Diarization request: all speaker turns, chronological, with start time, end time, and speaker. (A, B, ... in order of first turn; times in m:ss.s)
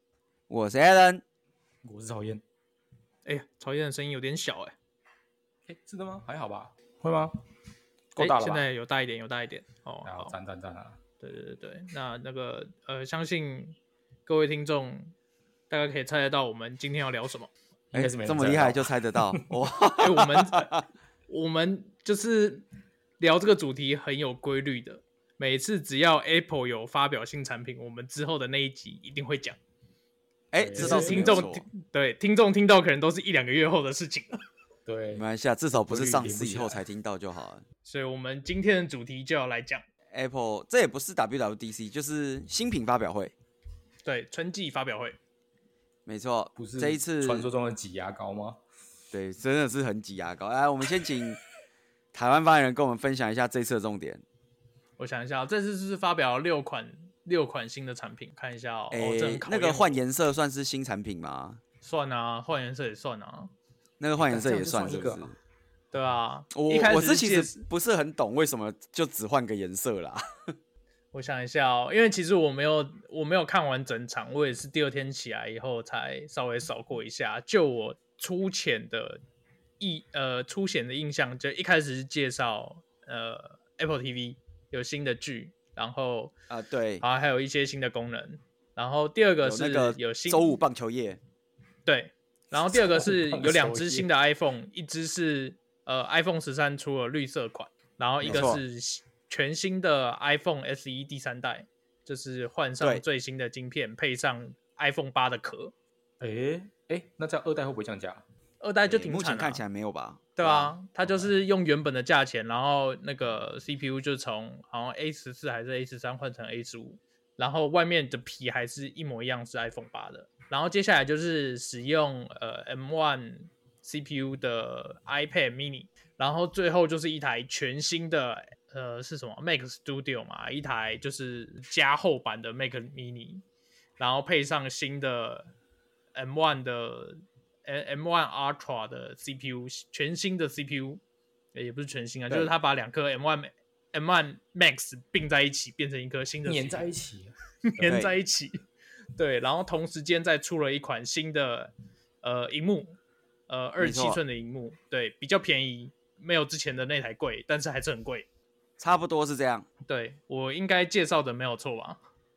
0:00.5-0:01.2 A
0:01.8-0:02.4 B
0:03.3-0:04.8 C
0:05.7-0:07.4 B
0:08.2-0:08.6 B
0:08.2-0:10.4 C
0:10.0-0:11.0 B
0:11.2-0:15.1 C
0:15.7-0:17.5 C
0:17.9-0:19.4 B
0:17.9-0:20.8 A
0:20.0-0:20.7 C
0:21.3-0:22.6 C
0:23.2-0:29.6 C
0:30.5-0:31.6 A
0:30.6-0:31.4 B
0:30.8-0:34.4 C
0:34.9-0:36.8 B
0:35.1-0:37.6 A
0:37.8-0:39.8 C
0:40.1-0:43.3 A
0:44.0-0:45.2 C
0:46.1-0:47.5 A
0:46.6-0:48.6 B
0:49.1-0:51.4 A
0:52.1-0:54.2 A
0:55.0-1:00.0 C
0:58.9-1:01.6 A
1:01.8-1:03.5 C
1:04.0-1:05.4 A
1:04.2-1:05.3 B
1:05.9-1:07.6 C
1:06.5-1:10.2 A
1:11.1-1:19.2 C
1:19.8-1:26.3 C
1:26.5-1:27.0 A
1:27.0-1:30.6 C
1:29.4-1:31.2 A
1:31.9-1:45.7 C
1:32.7-1:34.1 B
1:38.2-1:38.6 A
1:46.2-1:48.2 B
1:48.6-1:49.6 C
1:48.9-1:50.8 A
1:50.4-2:13.4 C
2:14.0-2:15.5 C
2:16.1-2:21.0 C
2:21.5-2:26.9 C
2:26.4-2:28.0 B
2:27.7-2:28.6 C
2:27.8-2:28.1 A
2:29.2-2:33.0 C
2:33.5-2:38.3 C
2:33.8-2:34.2 A
2:38.8-2:39.7 A
2:39.9-2:42.0 C